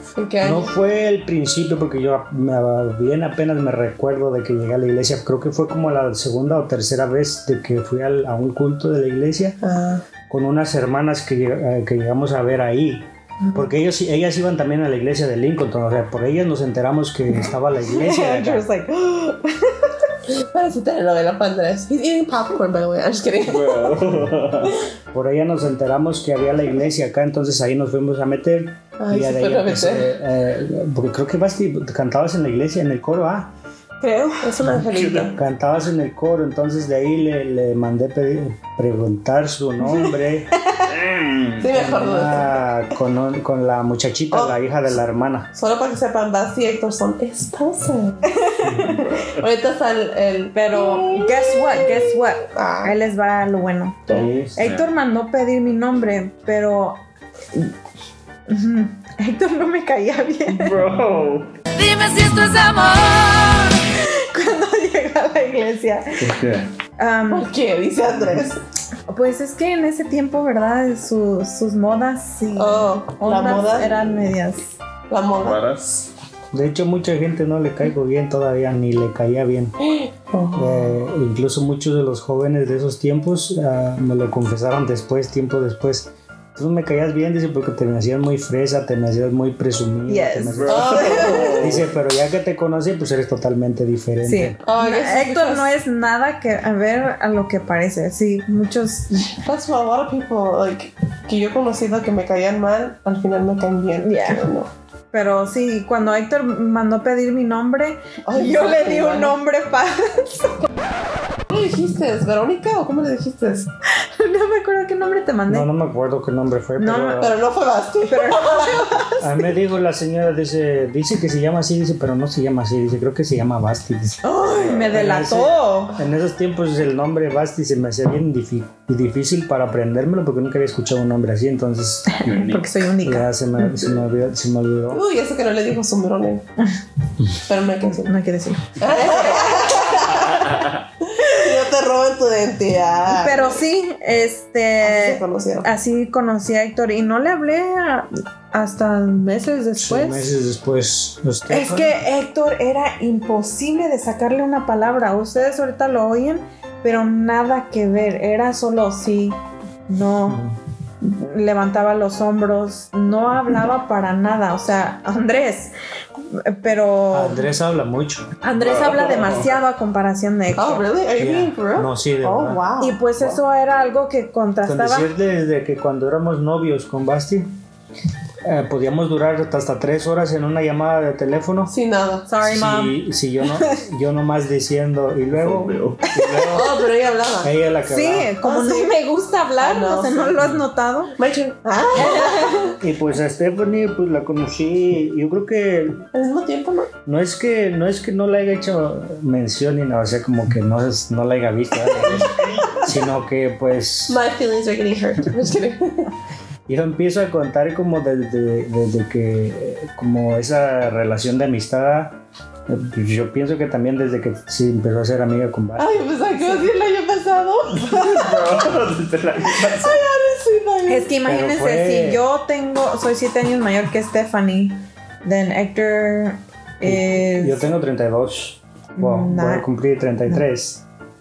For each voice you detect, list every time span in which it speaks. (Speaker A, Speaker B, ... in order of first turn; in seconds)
Speaker A: 0.2-0.8, 9.6-10.1, 20.3-24.0, 29.0-30.1, 34.4-35.4, 41.6-42.6, 44.3-44.6, 45.5-48.4, 49.4-53.0, 67.3-68.6, 72.5-74.0, 75.1-75.6, 79.8-81.0, 90.7-91.8, 94.6-95.7, 99.3-104.7, 108.2-109.4, 111.5-113.7, 117.2-119.1, 134.9-136.5, 137.5-138.2, 138.8-143.6, 144.8-145.7, 170.6-173.0, 181.7-182.3, 186.5-187.5, 188.4-189.0, 189.6-190.5, 191.2-192.7, 196.1-196.9, 204.1-206.1, 215.8-218.5, 219.6-221.1
Speaker B: 0.4-9.6, 10.3-18.7, 25.1-33.5, 35.3-40.6, 41.7-45.5, 54.1-54.6, 76.5-79.8, 80.5-94.6, 115.5-117.4, 119.2-124.3, 124.9-132.2, 133.0-135.0, 149.8-151.9, 160.3-160.6, 167.1-168.3, 171.2-172.6, 174.7-177.5, 178.4-181.7, 182.4-186.8, 187.4-188.4, 192.8-196.0, 197.1-204.2, 206.7-215.9, 221.2-222.2, 226.8-230.8
Speaker C: 17.9-20.1, 34.0-34.5, 48.3-49.0, 50.5-57.0, 58.5-60.8, 63.0-66.3, 67.0-67.5, 69.1-74.7, 90.1-91.5, 94.2-99.3, 104.0-104.5, 105.1-110.6, 113.9-115.7, 116.8-117.3, 118.1-119.2, 124.2-126.0, 132.1-133.8, 138.1-140.2, 143.1-150.3, 151.5-160.4, 161.0-165.7, 166.3-167.5, 168.4-170.9, 172.8-175.1, 182.3-183.0, 187.9-191.2, 191.9-192.8, 220.9-227.7, 229.0-229.7
Speaker D: 23.4-24.8, 34.9-35.3, 40.9-41.8, 48.6-49.4, 54.2-54.9, 60.5-61.5, 62.2-62.5, 66.2-66.7, 75.4-76.1, 90.5-91.9, 132.2-132.7, 140.3-140.8, 168.6-169.5, 185.3-186.2, 202.1-202.8, 217.8-220.0